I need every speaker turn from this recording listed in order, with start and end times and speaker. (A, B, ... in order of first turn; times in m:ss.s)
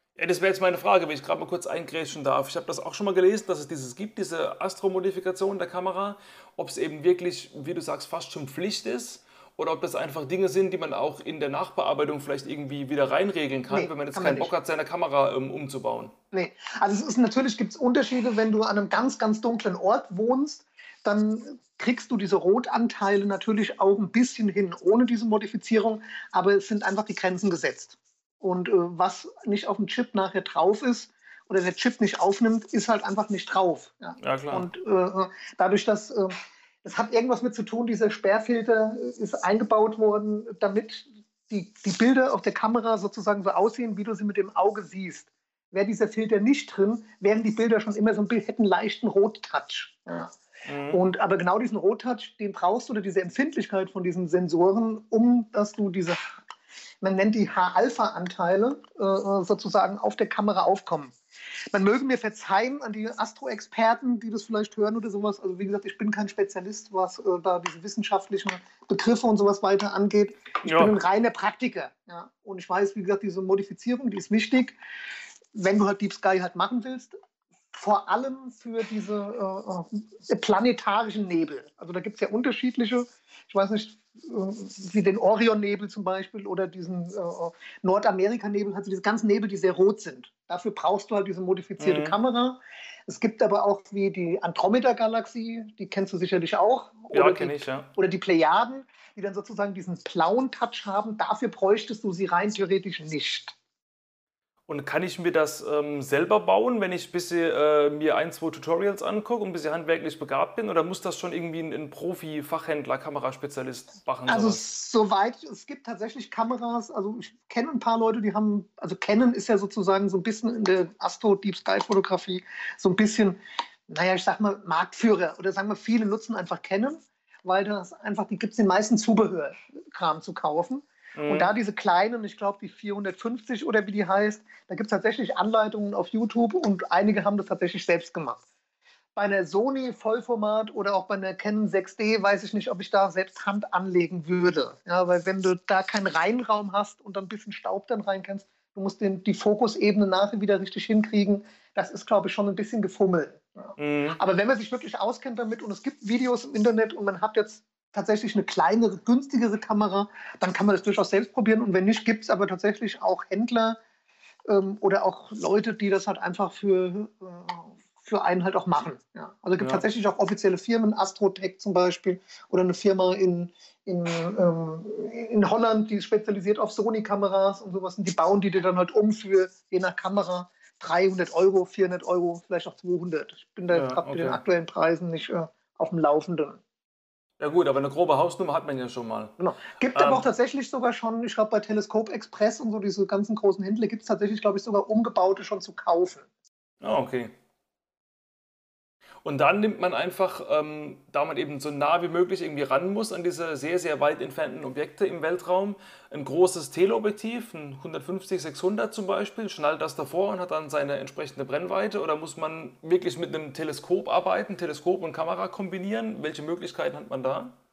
0:00.2-0:16.1 A
0:13.7-0:14.5 B
0:16.3-0:50.3 B
0:34.2-0:34.7 A
0:50.7-0:51.0 A
0:50.9-0:56.4 B
0:57.0-1:01.2 B
1:01.7-1:14.8 B
1:10.6-1:11.0 A
1:15.5-1:17.1 B
1:17.7-1:43.6 B
1:31.8-1:32.2 A
1:37.1-1:37.9 A
1:44.7-1:54.6 A
1:54.3-2:18.4 B
2:11.2-2:11.5 A
2:19.2-2:43.8 B
2:33.8-2:34.2 A
2:44.5-3:06.6 B
2:49.6-2:49.8 A
3:03.7-3:04.4 A
3:07.4-3:09.3 A
3:09.4-3:16.3 B
3:09.9-3:10.3 A
3:16.8-3:17.3 A
3:19.2-3:37.6 A